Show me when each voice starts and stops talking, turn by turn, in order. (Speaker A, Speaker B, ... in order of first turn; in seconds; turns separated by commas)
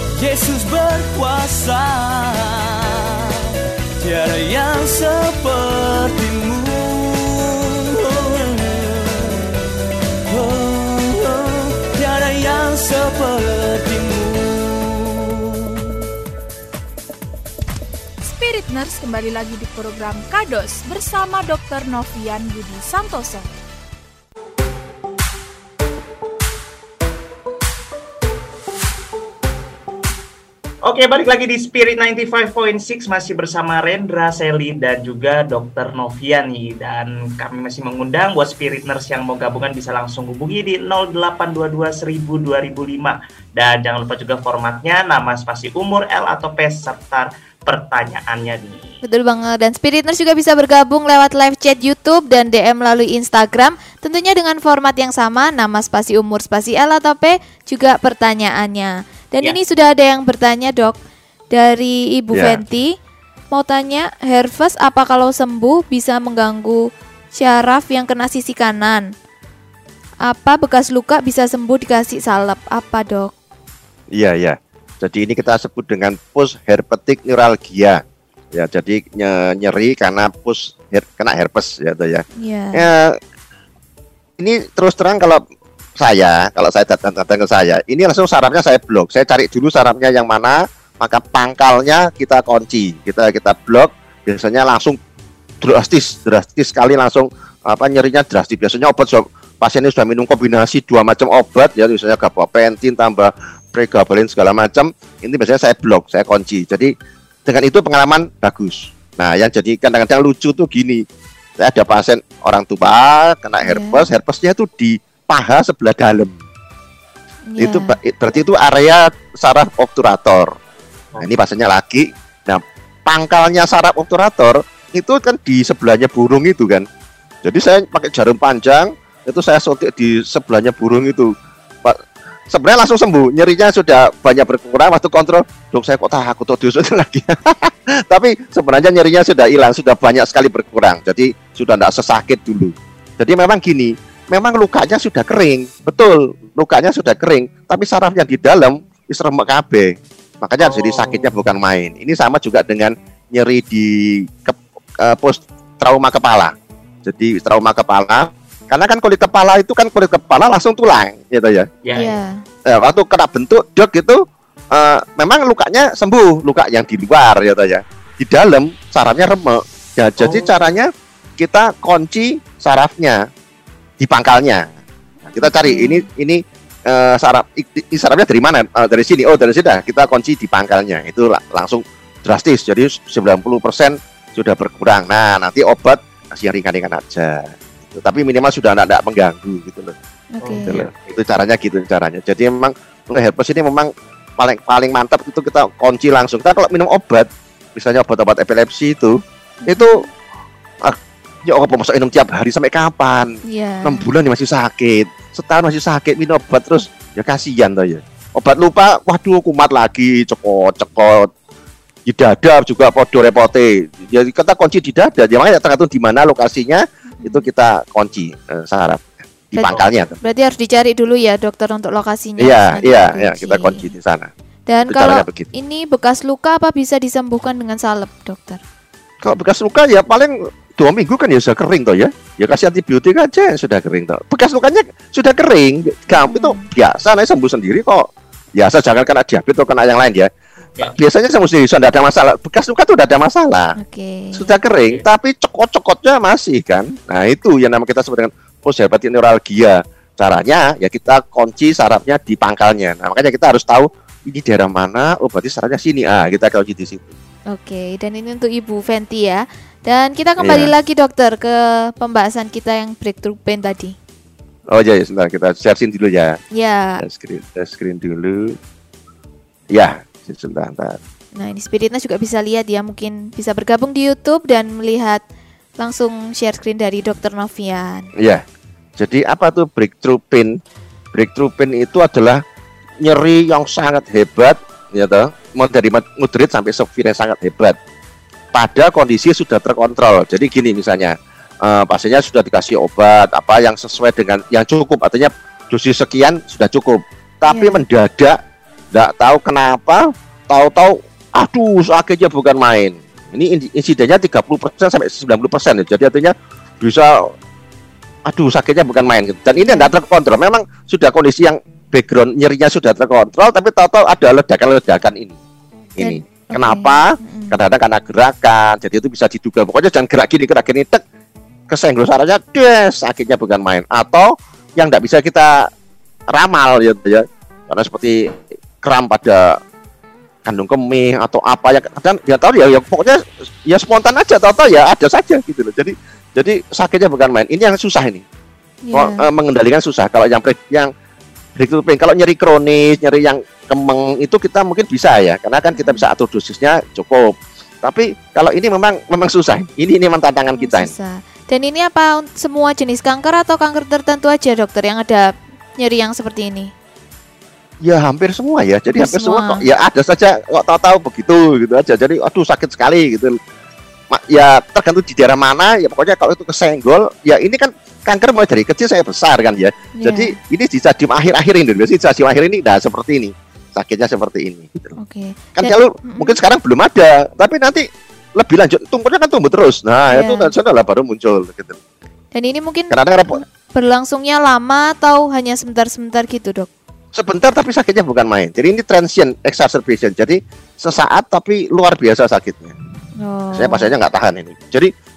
Speaker A: 0.2-9.5, Speaker A: 10.3-16.1, Speaker B: 18.2-23.5, Speaker C: 30.8-49.0, Speaker D: 49.0-61.0, Speaker D: 61.5-63.0, Speaker E: 62.3-62.6, Speaker D: 63.5-69.1, Speaker D: 70.2-73.3, Speaker E: 74.1-78.0, Speaker E: 78.5-83.2, Speaker D: 82.4-82.9, Speaker E: 84.4-85.4, Speaker E: 86.0-95.0, Speaker E: 95.6-106.9, Speaker E: 107.5-111.0, Speaker E: 111.6-116.4, Speaker D: 113.6-114.0, Speaker D: 117.5-118.0, Speaker E: 117.6-120.5, Speaker E: 121.2-126.9, Speaker E: 127.4-131.3, Speaker E: 131.8-156.5, Speaker C: 150.6-151.4, Speaker E: 157.1-161.7, Speaker C: 161.8-162.2, Speaker D: 161.9-162.4, Speaker E: 162.7-173.3, Speaker C: 170.2-170.7, Speaker E: 174.0-174.7, Speaker E: 175.3-200.0, Speaker D: 175.4-176.1, Speaker D: 190.3-190.8, Speaker C: 190.7-191.1, Speaker D: 199.7-200.1, Speaker E: 200.8-211.3, Speaker D: 203.5-204.1, Speaker E: 212.1-220.2, Speaker D: 217.2-217.5, Speaker D: 219.6-223.9, Speaker E: 222.4-224.3, Speaker D: 224.7-228.6, Speaker E: 224.9-225.5, Speaker E: 229.2-243.8, Speaker D: 236.1-236.7, Speaker D: 243.8-244.5, Speaker E: 244.3-257.1, Speaker D: 257.5-264.0, Speaker E: 260.4-260.7, Speaker E: 264.7-266.4, Speaker D: 266.6-267.0, Speaker E: 267.0-268.6, Speaker E: 269.7-271.0, Speaker D: 271.4-275.2, Speaker D: 275.8-278.1, Speaker E: 278.2-278.4, Speaker E: 279.0-280.6, Speaker E: 281.1-282.4, Speaker E: 283.0-287.8, Speaker E: 288.5-298.4, Speaker D: 297.5-297.8, Speaker E: 298.9-307.3, Speaker E: 308.3-315.4, Speaker D: 309.6-309.9, Speaker E: 316.0-321.0, Speaker D: 316.0-317.6, Speaker E: 321.7-325.7, Speaker E: 326.3-329.6, Speaker E: 330.4-338.2, Speaker D: 338.9-339.3, Speaker E: 338.9-340.9, Speaker E: 341.6-350.9, Speaker D: 345.8-346.0, Speaker D: 350.6-356.7, Speaker E: 357.8-363.4, Speaker D: 358.9-359.6, Speaker E: 364.1-374.9, Speaker D: 370.0-370.4, Speaker D: 375.0-376.4, Speaker E: 375.6-377.9, Speaker E: 378.4-381.8, Speaker D: 380.1-380.5, Speaker D: 382.3-386.7, Speaker E: 382.9-383.4, Speaker E: 387.1-392.8, Speaker D: 393.2-393.9, Speaker E: 393.6-394.9